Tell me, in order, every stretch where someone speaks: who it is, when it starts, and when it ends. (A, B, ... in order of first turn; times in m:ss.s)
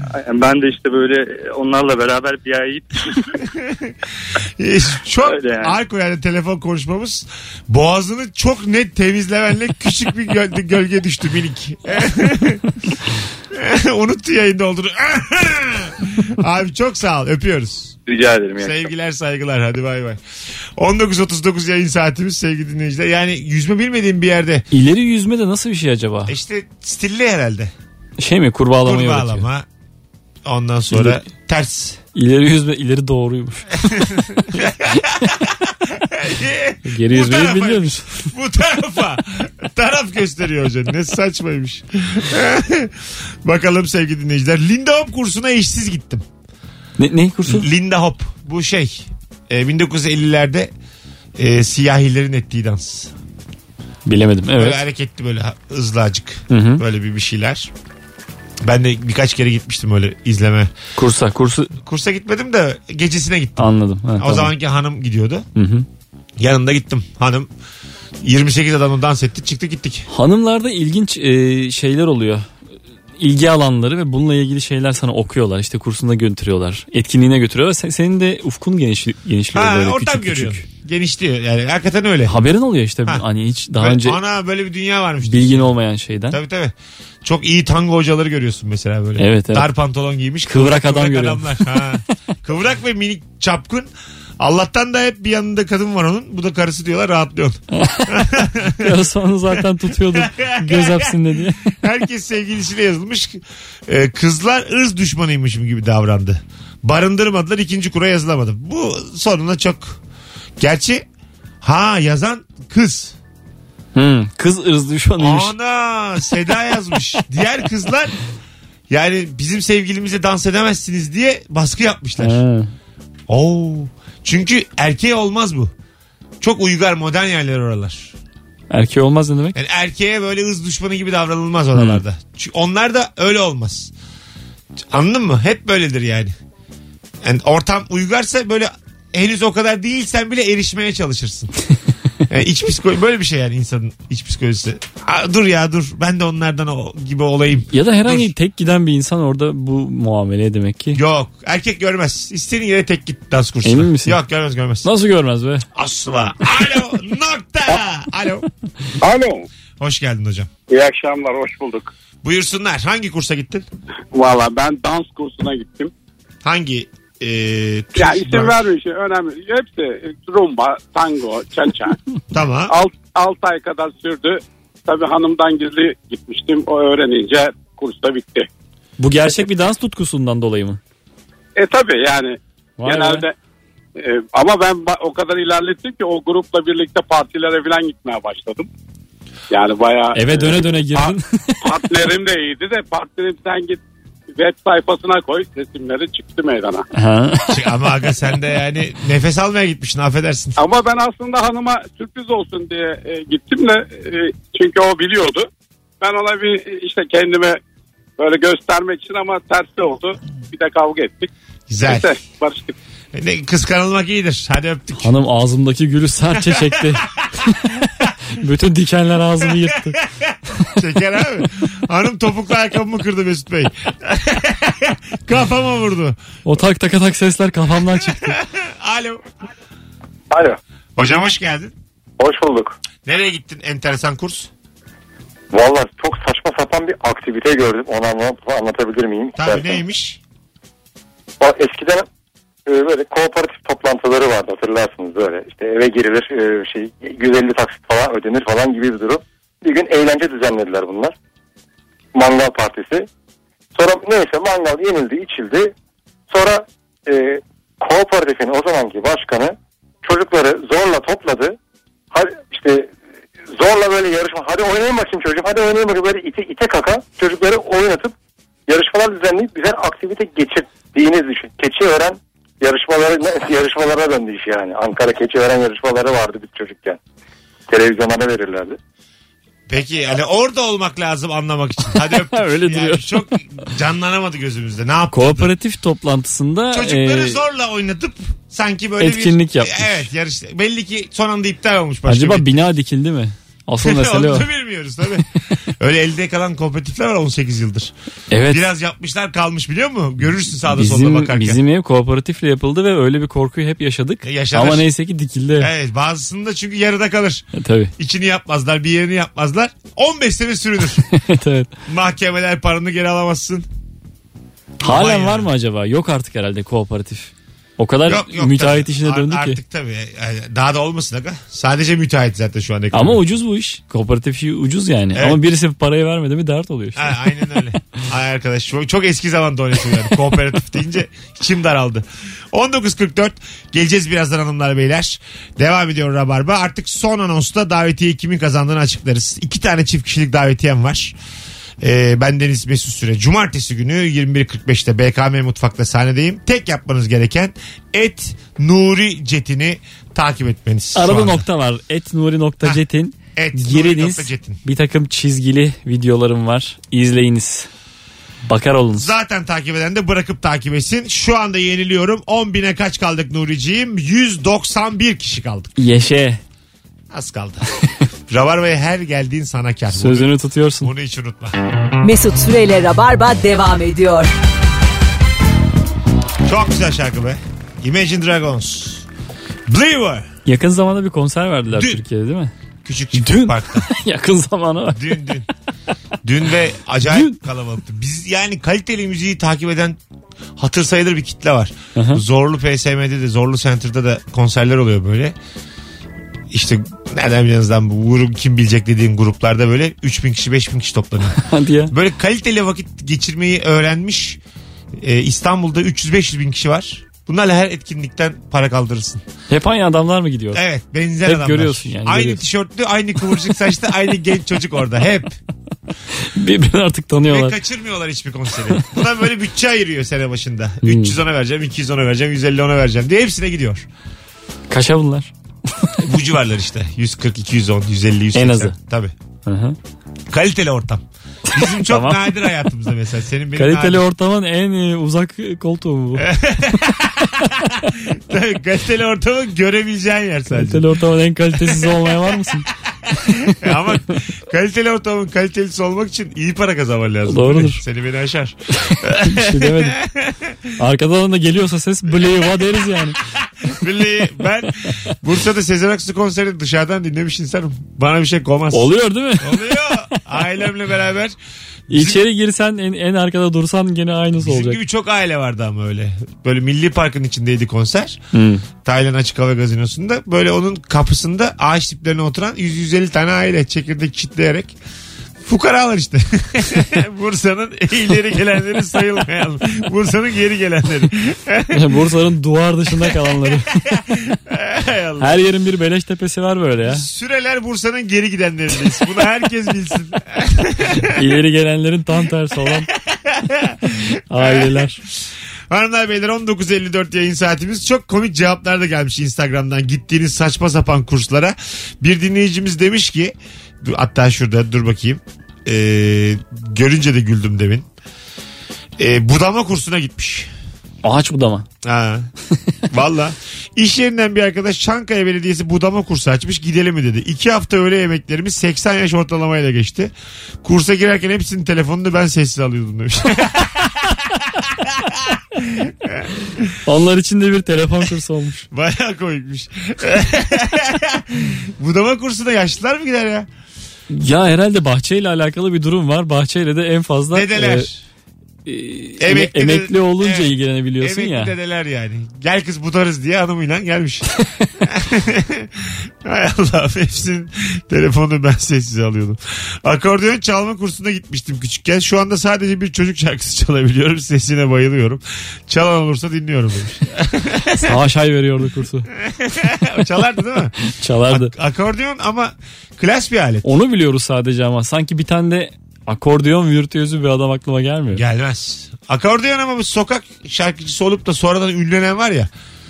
0:00.1-0:03.3 A
0:03.5-0:03.9 B
0:04.6-0:12.7 B
0:05.2-0:05.8 A
0:13.5-0:18.0 B
0:18.1-0:18.9 A
0:18.6-0:20.2 B
0:20.8-0:24.6 B
0:24.7-0:26.4 C
0:26.2-0:27.7 B
0:28.2-0:29.4 C
0:28.8-0:29.6 B
0:30.4-0:32.0 B
0:30.9-0:31.2 C
0:32.1-0:33.8 C
0:33.9-0:46.2 B
0:36.9-0:38.3 C
0:47.0-0:47.7 C
0:47.4-0:50.7 B
0:51.4-0:53.1 B
0:54.0-0:54.8 C
0:54.6-0:57.7 B
0:56.5-0:56.8 C
0:58.6-1:00.7 B
1:01.0-1:01.7 C
1:01.7-1:05.5 B
1:03.6-1:04.5 C
1:05.6-1:05.9 C
1:06.4-1:07.5 B
1:08.2-1:10.1 B
1:10.1-1:12.5 C
1:13.2-1:20.6 C
1:19.5-1:22.4 B
1:22.3-1:24.2 C
1:23.8-1:25.7 B
1:25.2-1:26.4 C
1:26.3-1:39.0 B
1:29.2-1:29.7 C
1:30.5-1:31.8 C
1:37.8-1:41.7 C
1:40.1-1:41.2 B
1:41.8-1:50.0 B
1:50.6-1:51.0 B
1:51.6-1:53.2 B
1:53.9-1:55.5 C
1:55.2-1:58.2 B
1:58.9-2:02.4 B
2:02.2-2:02.7 C
2:03.3-2:05.7 B
2:06.4-2:08.1 B
2:08.7-2:09.6 C
2:09.5-2:13.9 B
2:11.8-2:12.0 C
2:14.9-2:16.3 B
2:17.2-2:21.5 B
2:22.3-2:28.3 B
2:27.7-2:31.0 C
2:30.9-2:34.9 B
2:33.6-2:34.2 C
2:34.8-2:35.6 C
2:35.7-2:38.5 B
2:39.0-2:39.5 D
2:39.8-2:40.5 B
2:40.7-2:41.9 D
2:42.2-2:43.6 B
2:44.1-2:45.9 D
2:46.4-2:48.6 B
2:48.0-2:52.0 D
2:52.3-2:52.7 B
2:52.7-2:58.5 D
2:59.0-3:00.8 C
3:01.6-3:03.4 D
3:02.8-3:03.2 C
3:04.0-3:08.7 D
3:09.5-3:13.8 D
3:10.1-3:11.8 C
3:14.4-3:16.9 D
3:16.9-3:17.7 C
3:17.5-3:20.6 B
3:20.6-3:25.5 D
3:26.0-3:27.6 D
3:28.2-3:31.3 D
3:31.7-3:32.1 B
3:31.8-3:32.7 D
3:33.1-3:35.1 B
3:35.0-3:40.0 C
3:36.4-3:37.0 B
3:39.6-3:46.2 B
3:46.4-3:48.4 C
3:47.9-3:49.2 B
3:50.3-3:50.6 E
3:51.0-3:51.7 B
3:52.2-3:52.8 E
3:53.0-3:54.5 B
3:55.5-3:59.7 E
3:59.4-4:00.2 B
4:01.4-4:02.1 E
4:02.6-4:11.1 E
4:12.1-4:13.1 E
4:13.7-4:15.7 E
4:16.3-4:21.6 E
4:22.1-4:22.9 E
4:23.5-4:28.1 E
4:28.7-4:37.0 E
4:37.7-4:38.8 E
4:39.7-4:45.5 B
4:42.0-4:43.1 C
4:45.1-4:47.4 C
4:46.7-4:52.4 B
4:49.0-4:50.0 C
4:52.1-4:54.5 C
4:53.8-4:57.9 B
4:58.3-4:58.6 C
4:58.5-5:01.6 B
5:00.7-5:05.7 C
5:04.2-5:04.9 B
5:05.6-5:07.4 B
5:07.6-5:07.9 C
5:08.0-5:11.0 B
5:11.1-5:11.7 C
5:11.9-5:13.7 B
5:14.8-5:15.5 B
5:14.8-5:19.6 C
5:18.0-5:23.2 B
5:22.9-5:27.3 C
5:25.1-5:25.4 B
5:27.0-5:41.2 B
5:41.8-5:51.4 B
5:50.9-5:57.7 C
5:53.4-5:54.6 B
5:58.5-5:59.1 C
5:58.9-6:05.8 B
6:05.8-6:06.4 C
6:07.1-6:07.6 B
6:08.3-6:11.6 B
6:09.9-6:10.9 C
6:12.0-6:14.3 F
6:16.4-6:19.0 B
6:19.7-6:20.3 B
6:20.4-6:22.5 C
6:21.7-6:22.0 B
6:22.8-6:23.9 B
6:23.1-6:25.3 C
6:24.9-6:25.4 B
6:26.2-6:30.0 B
6:27.1-6:27.4 C
6:30.6-6:35.4 B
6:32.0-6:32.2 C
6:36.5-6:44.4 B
6:41.4-6:41.9 C
6:45.0-6:49.2 B
6:49.5-6:50.6 C
6:50.5-6:55.4 B
6:51.2-6:52.4 C
6:56.3-6:57.6 C
6:57.2-7:03.9 B
7:00.8-7:01.1 C
7:04.7-7:05.3 C
7:06.0-7:09.1 B
7:08.4-7:08.7 C
7:09.4-7:09.8 C
7:10.3-7:14.0 B
7:11.5-7:12.3 C
7:13.6-7:16.3 C
7:16.2-7:20.9 B
7:20.5-7:22.6 C
7:21.6-7:22.3 B
7:23.0-7:30.7 B
7:27.3-7:27.8 C
7:29.2-7:30.0 C
7:30.8-7:33.2 C
7:32.1-7:41.4 B
7:38.7-7:40.0 C
7:41.9-7:42.2 B
7:41.9-7:44.8 C
7:44.4-7:48.2 B
7:48.3-7:48.6 C
7:48.8-7:54.7 B
7:55.4-8:02.0 B
8:01.7-8:03.9 C
8:03.0-8:05.4 B
8:05.2-8:07.0 C
8:06.8-8:11.2 B
8:11.0-8:12.9 C
8:13.0-8:27.9 B
8:14.3-8:15.0 C
8:29.0-8:30.5 B
8:31.0-8:31.6 C
8:31.8-8:32.3 B
8:32.9-8:40.1 B
8:40.6-8:46.8 B
8:46.9-8:48.6 C
8:48.7-8:53.5 B
8:54.1-8:57.9 C
8:57.3-8:58.0 B
8:58.6-9:01.5 C
8:59.2-9:04.3 B
9:04.8-9:18.0 B
9:17.8-9:19.1 C
9:19.2-9:20.7 B
9:20.9-9:21.5 C
9:21.3-9:23.7 B
9:23.6-9:28.2 C
9:28.1-9:32.5 B